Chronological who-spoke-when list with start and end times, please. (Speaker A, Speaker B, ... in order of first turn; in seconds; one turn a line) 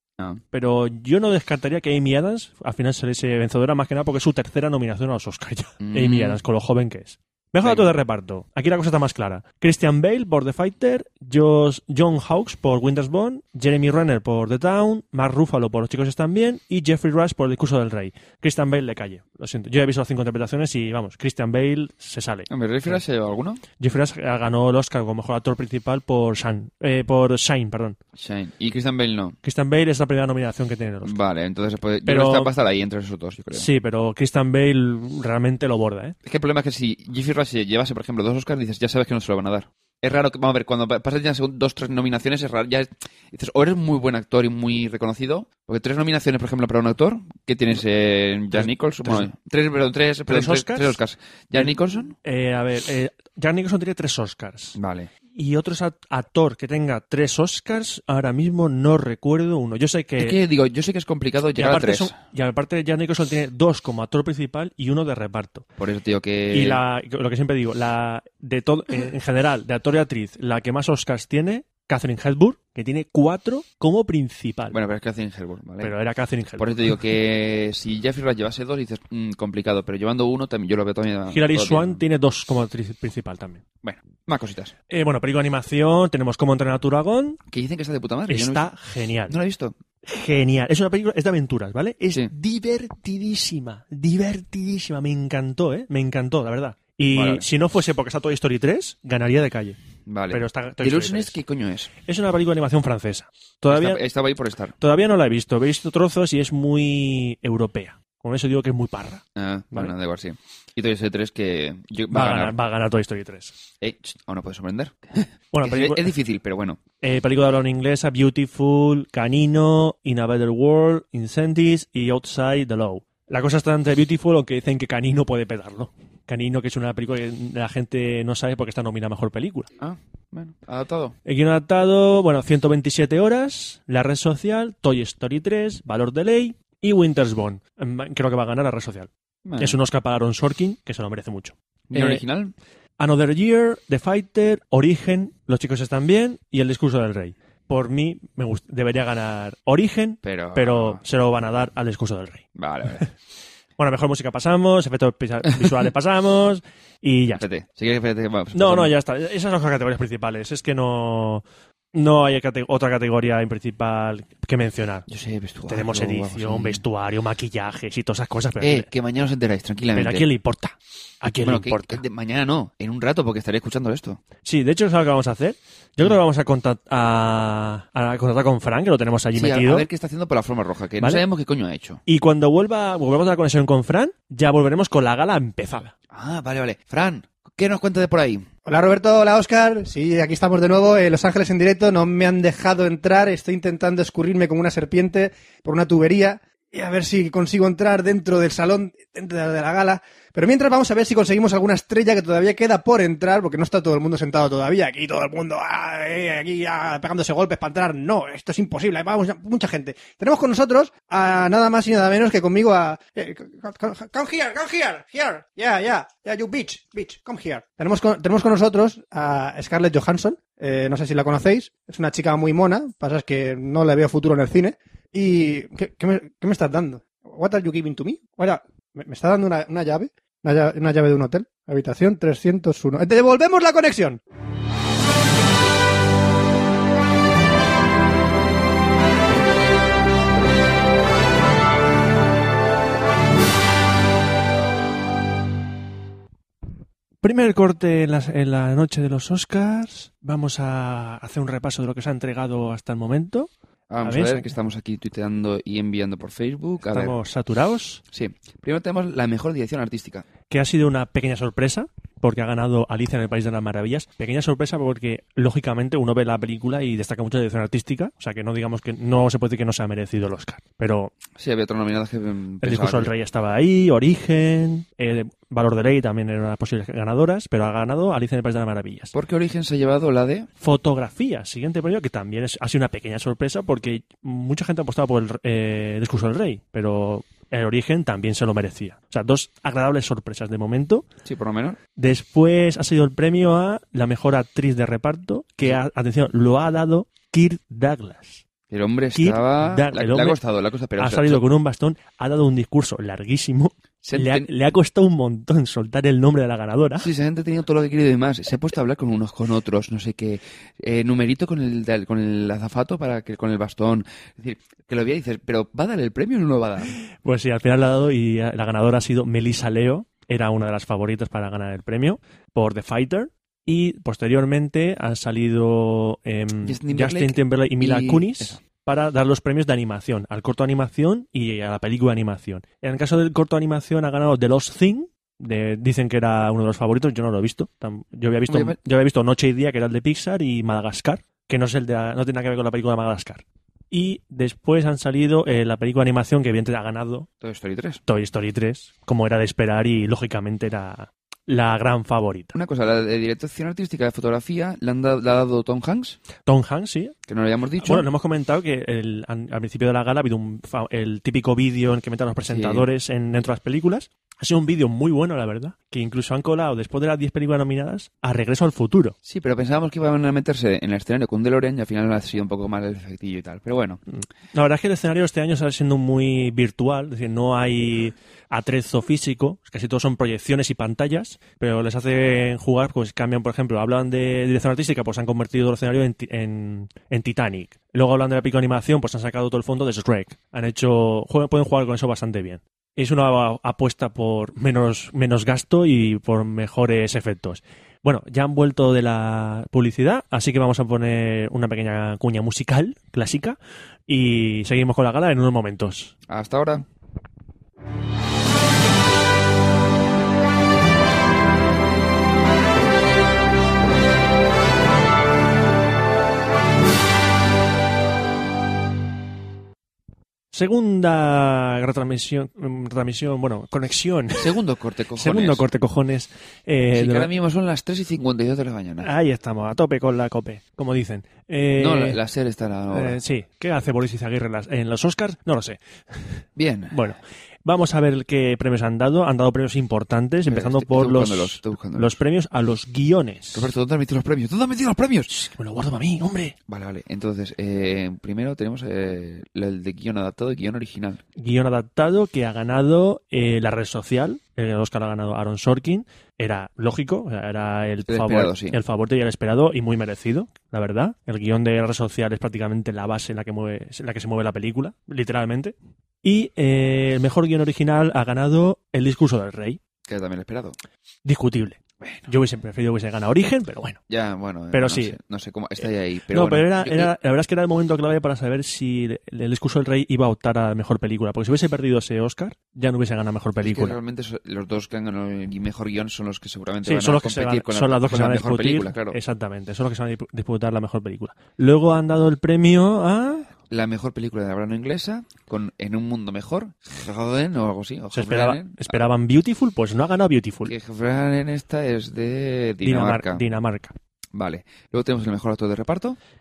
Speaker A: 0.5-23.0
Speaker B: 5.8-6.4
Speaker B: 7.6-7.9
Speaker B: 22.5-23.6
Speaker A: 23.8-28.0
Speaker B: 28.1-29.4
Speaker A: 29.4-31.1
Speaker B: 31.0-33.7
Speaker A: 32.0-32.5
Speaker A: 33.5-36.1
Speaker B: 36.2-52.1
Speaker A: 48.5-49.3
Speaker A: 50.3-51.0
Speaker A: 52.2-54.8
Speaker B: 54.7-55.1
Speaker A: 55.3-60.4
Speaker B: 60.2-62.1
Speaker A: 61.5-65.6
Speaker B: 65.8-66.8
Speaker A: 66.5-74.8
Speaker B: 74.7-75.9
Speaker A: 75.8-76.9
Speaker B: 76.6-82.0
Speaker A: 81.3-83.6
Speaker B: 83.8-84.7
Speaker A: 84.9-87.4
Speaker B: 87.5-88.7
Speaker A: 88.3-89.3
Speaker B: 89.3-89.8
Speaker A: 90.0-99.8
Speaker B: 97.1-97.5
Speaker B: 100.0-101.9
Speaker A: 100.3-101.3
Speaker A: 102.0-104.0
Speaker B: 103.7-104.7
Speaker A: 104.8-109.9
Speaker B: 109.3-112.5
Speaker A: 112.1-113.6
Speaker B: 113.8-116.8
Speaker A: 115.5-116.1
Speaker A: 117.0-129.7
Speaker B: 129.8-131.2
Speaker A: 131.2-142.2
Speaker B: 139.4-139.8
Speaker B: 141.9-142.5
Speaker A: 143.0-153.1
Speaker B: 150.2-151.0
Speaker B: 152.5-153.0
Speaker A: 153.8-157.4
Speaker B: 157.3-158.9
Speaker A: 158.5-165.1
Speaker B: 165.1-166.8
Speaker A: 165.7-168.9
Speaker B: 168.6-170.2
Speaker A: 169.9-172.0
Speaker B: 171.4-174.2
Speaker A: 174.4-179.9
Speaker B: 179.3-182.0
Speaker A: 182.1-185.9
Speaker B: 186.1-188.4
Speaker C: 188.7-234.2
Speaker A: 247.2-253.5
Speaker B: 253.9-257.1
Speaker A: 254.0-254.5
Speaker A: 256.9-258.0
Speaker B: 258.1-260.3
Speaker A: 260.5-271.1
Speaker B: 271.4-273.1
Speaker A: 272.6-279.1
Speaker B: 279.1-280.5
Speaker A: 280.6-291.1
Speaker B: 291.2-291.8
Speaker A: 292.0-298.4
Speaker B: 298.7-301.4
Speaker A: 299.1-300.4
Speaker A: 301.0-307.1
Speaker B: 304.0-304.5
Speaker B: 307.0-316.9
Speaker A: 317.1-347.3
Speaker B: 326.6-328.6
Speaker B: 338.5-338.8
Speaker B: 347.4-348.0
Speaker A: 348.1-352.5
Speaker B: 352.5-356.2
Speaker A: 356.4-357.1
Speaker B: 357.3-358.1
Speaker A: 357.8-369.1
Speaker B: 362.5-362.9
Speaker B: 369.2-374.0
Speaker A: 374.1-403.6
Speaker A: 404.1-406.1
Speaker B: 406.3-406.8
Speaker A: 420.5-424.6
Speaker B: 424.4-425.6
Speaker A: 425.1-427.3
Speaker B: 426.9-429.1
Speaker A: 429.0-432.2
Speaker B: 431.8-433.2
Speaker A: 432.9-443.7
Speaker B: 436.6-437.0
Speaker B: 440.5-442.2
Speaker B: 443.5-445.3
Speaker A: 445.3-446.6
Speaker B: 446.7-451.2
Speaker A: 451.4-469.8
Speaker B: 458.1-458.8
Speaker B: 470.1-470.8
Speaker A: 471.2-474.0
Speaker B: 472.0-472.3
Speaker B: 474.1-477.1
Speaker A: 474.7-475.2
Speaker A: 476.3-484.0
Speaker B: 483.6-489.2
Speaker A: 486.8-493.5
Speaker B: 493.7-498.9
Speaker A: 498.1-500.7
Speaker B: 500.6-503.4
Speaker A: 502.8-503.9
Speaker B: 504.3-506.2